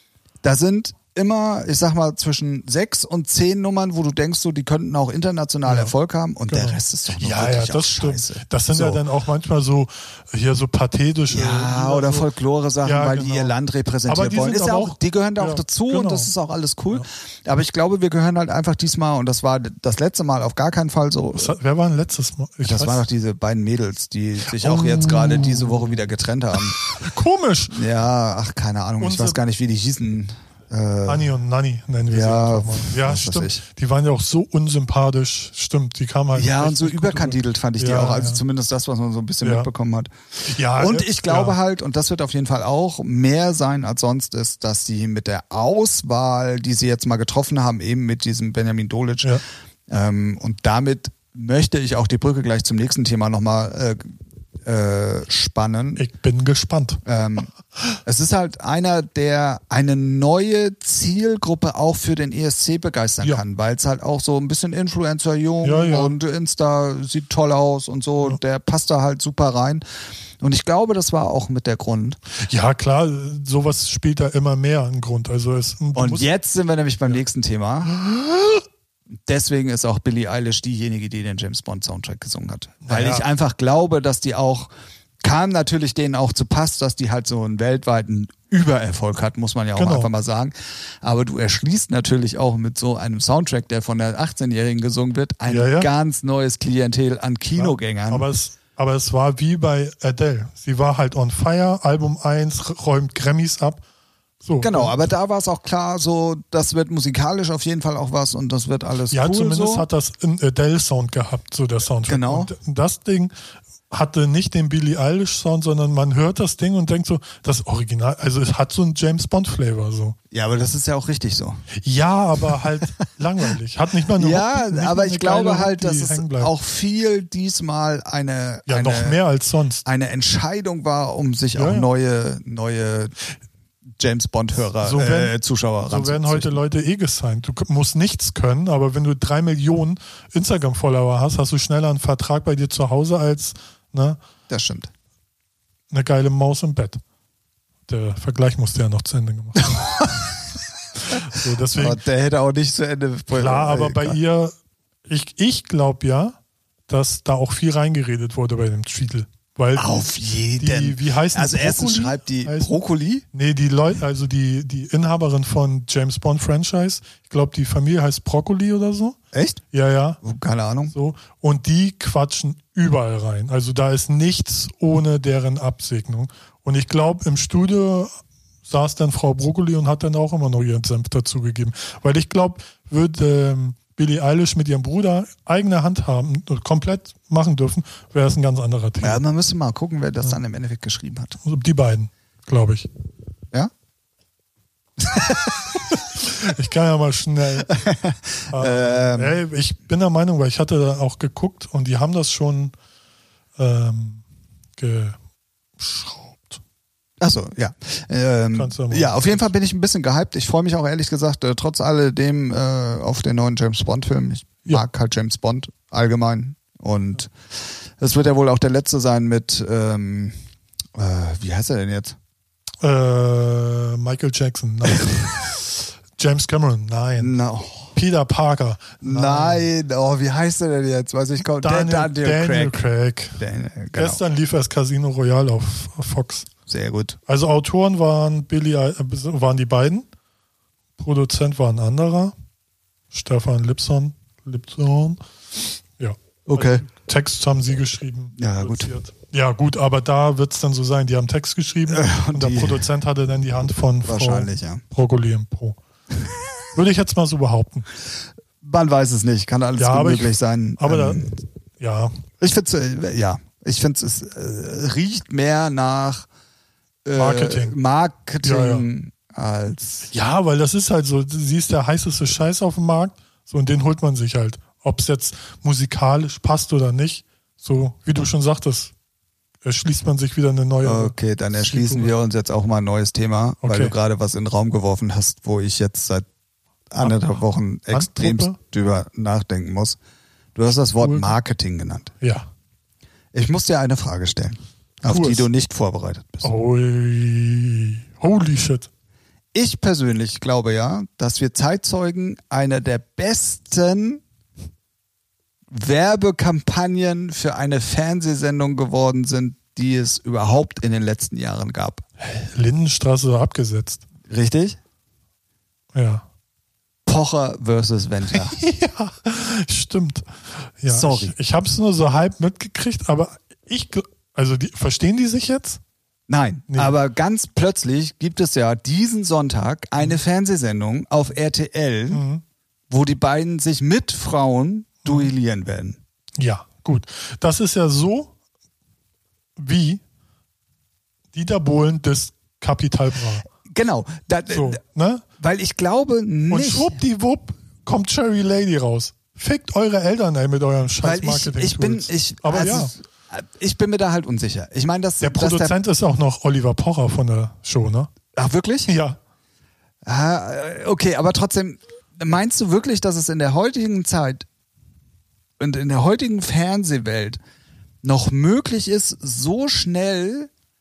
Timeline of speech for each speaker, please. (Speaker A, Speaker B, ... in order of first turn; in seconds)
Speaker A: 0.4-9.0, 11.3-21.6, 22.6-26.8, 27.7-31.3, 32.1-33.6, 36.4-54.1, 54.6-56.0, 57.0-57.5, 58.0-69.8, 70.4-72.2, 76.0-78.0, 79.3-84.7, 85.2-98.3, 104.6-109.9, 112.1-112.5, 120.3-121.6, 124.2-129.2, 129.8-133.1, 134.0-136.6, 144.5-144.9, 149.7-150.3, 151.7-154.2, 159.8-163.2, 169.3-169.6, 170.2-170.9, 189.0-191.4, 195.0-195.8, 197.7-199.4, 207.2-220.3, 220.9-222.2, 227.2-227.9, 229.0-232.8, 233.4-234.2, 236.7-237.2, 246.5-246.8, 248.4-248.9, 251.9-252.8, 254.1-254.8, 258.6-261.4, 262.4-266.3, 267.1-270.1, 280.8-286.3, 286.9-290.0, 290.6-292.1, 293.3-296.5, 299.5-304.2, 305.7-312.0, 314.3-314.8, 317.1-318.6, 320.9-321.4, 326.3-332.2, 332.9-336.0, 343.6-344.8, 345.4-346.9, 351.0-355.8, 358.3-358.9, 360.1-364.5, 365.6-367.4, 368.0-370.5
Speaker B: 5.7-5.9, 6.5-12.3, 12.8-16.3, 21.3-23.1, 24.5-25.9, 26.6-27.8, 29.0-29.4, 31.1-38.4, 39.4-39.7, 40.5-41.6, 56.0-57.0, 65.6-66.1, 72.4-76.3, 78.0-78.6, 82.8-83.2, 89.8-90.1, 95.5-95.9, 97.6-103.8, 104.4-105.1, 109.1-113.3, 113.9-120.2, 121.8-126.5, 128.7-129.8, 131.6-131.9, 134.8-135.3, 135.9-144.2, 145.9-147.0, 147.9-150.0, 151.0-152.0, 153.3-154.5, 155.1-156.4, 156.9-160.1, 160.6-162.7, 163.3-169.2, 169.7-170.2, 170.9-178.1, 178.7-189.2, 191.4-192.9, 196.0-197.8, 198.5-202.7, 203.6-204.2, 204.8-205.2, 205.8-206.6, 208.5-209.5, 222.8-227.4, 227.9-229.7, 231.6-233.4, 233.9-236.5, 237.3-240.1, 241.0-242.3, 243.1-245.2, 246.0-255.8, 256.7-257.9, 259.8-262.2, 267.1-267.8, 268.4-268.9, 270.1-278.9, 279.6-282.1, 283.6-283.9, 287.0-287.4, 287.9-288.6, 291.0-291.3, 292.2-292.5, 295.1-295.5, 296.4-298.9, 312.2-314.0, 315.9-316.2, 318.3-325.8, 326.7-326.9, 332.1-332.4, 335.1-335.3, 336.4-338.3, 339.6-340.0, 341.3-343.5, 344.5-345.2, 346.5-352.9, 355.2-358.1, 358.9-359.2